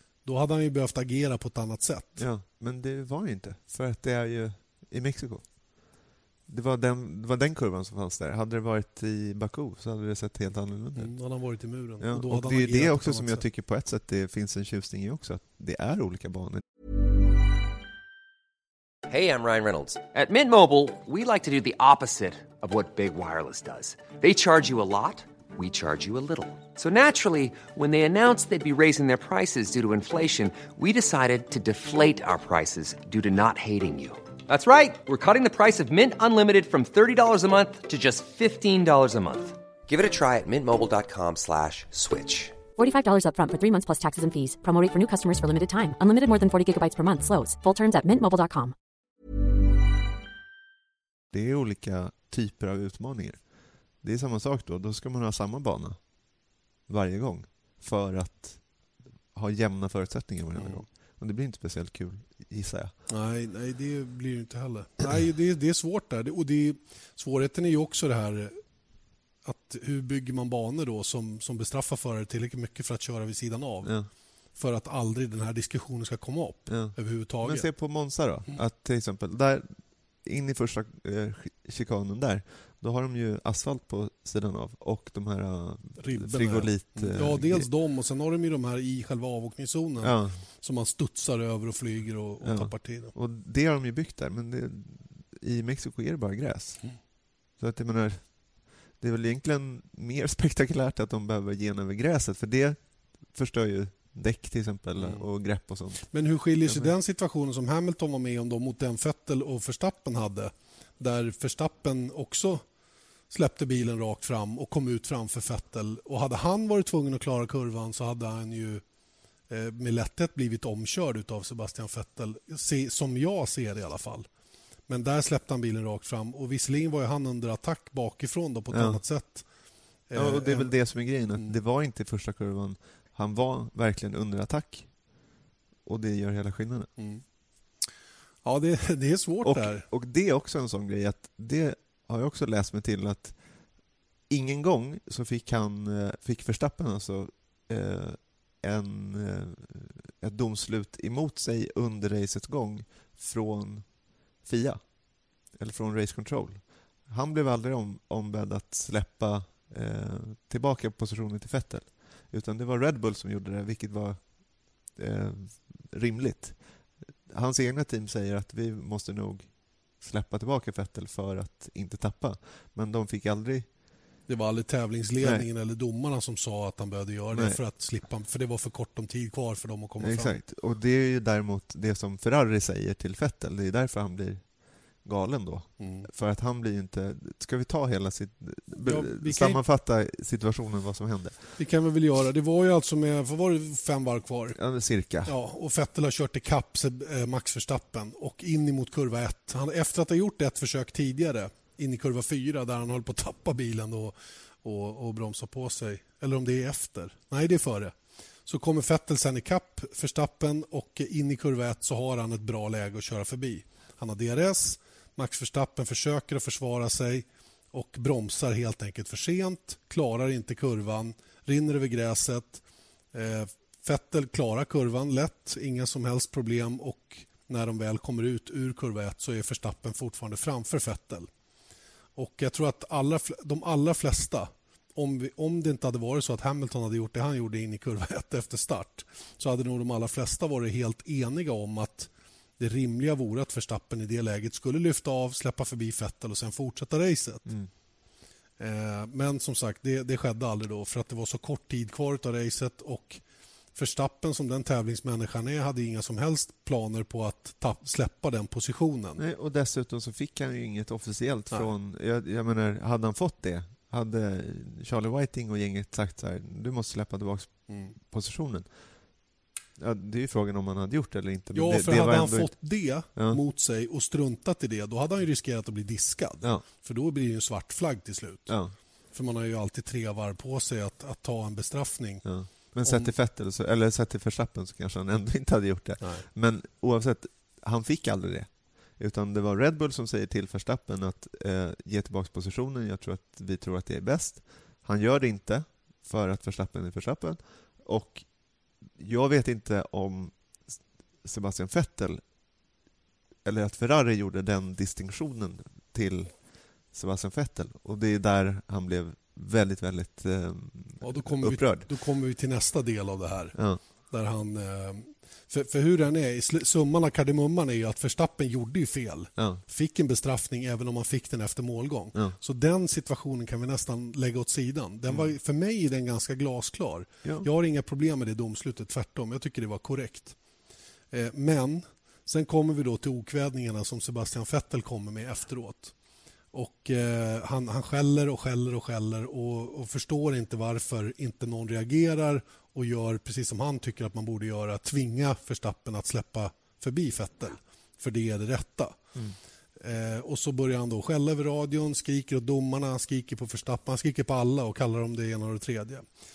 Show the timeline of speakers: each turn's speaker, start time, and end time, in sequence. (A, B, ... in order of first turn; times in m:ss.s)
0:00.2-0:02.3 A
0:02.2-0:05.6 B
0:06.5-0:11.2 B
0:11.0-0:13.4 A
0:12.0-0:16.6 B
0:19.1-0:42.6 C
0:42.8-0:48.8 D
0:51.3-0:53.4 B
0:54.0-0:56.0 B
0:56.9-0:58.6 B
0:59.3-1:02.9 B
1:00.6-1:00.8 A
1:03.1-1:08.6 A
1:09.4-1:14.0 A
1:14.6-1:17.7 A
1:16.7-1:27.7 B
1:26.0-1:33.2 A
1:30.0-1:30.4 B
1:32.4-1:37.0 B
1:37.6-1:46.1 B
1:45.0-1:45.3 A
1:46.1-1:52.6 A
1:53.3-1:58.8 A
1:59.5-2:04.3 A
2:04.9-2:09.5 A
2:08.7-2:09.0 B
2:10.1-2:10.7 A
2:10.1-2:15.0 B
2:15.8-2:16.9 B
2:17.0-2:17.2 A
2:18.4-2:19.9 A
2:19.4-2:23.4 B
2:24.3-2:34.8 B
2:35.5-2:46.6 B
2:47.3-2:53.7 B
2:54.3-3:00.4 A
2:55.2-2:55.5 B
2:57.3-2:57.6 B
3:00.0-3:11.6 B
3:05.8-3:06.1 A
3:08.8-3:09.6 A
3:11.6-3:14.6 A
3:14.6-3:15.3 B
3:15.2-3:27.9 A
3:28.5-3:51.3 A
3:52.2-4:07.5 A
4:08.6-4:13.2 A
4:13.7-4:19.2 A
4:19.2-4:28.7 B
4:27.7-4:28.0 A
4:29.8-4:32.6 B
4:31.5-4:38.6 A
4:33.1-4:33.4 B
4:38.5-4:38.7 B
4:39.1-4:42.3 A
4:42.2-4:58.3 B
4:42.8-4:43.1 A
4:46.0-4:46.3 A
4:59.0-5:02.2 B
5:03.4-5:11.9 B
5:11.0-5:30.4 A
5:13.6-5:13.8 B
5:19.4-5:19.6 B
5:31.1-5:35.9 A
5:36.5-5:49.0 A
5:49.8-5:56.0 A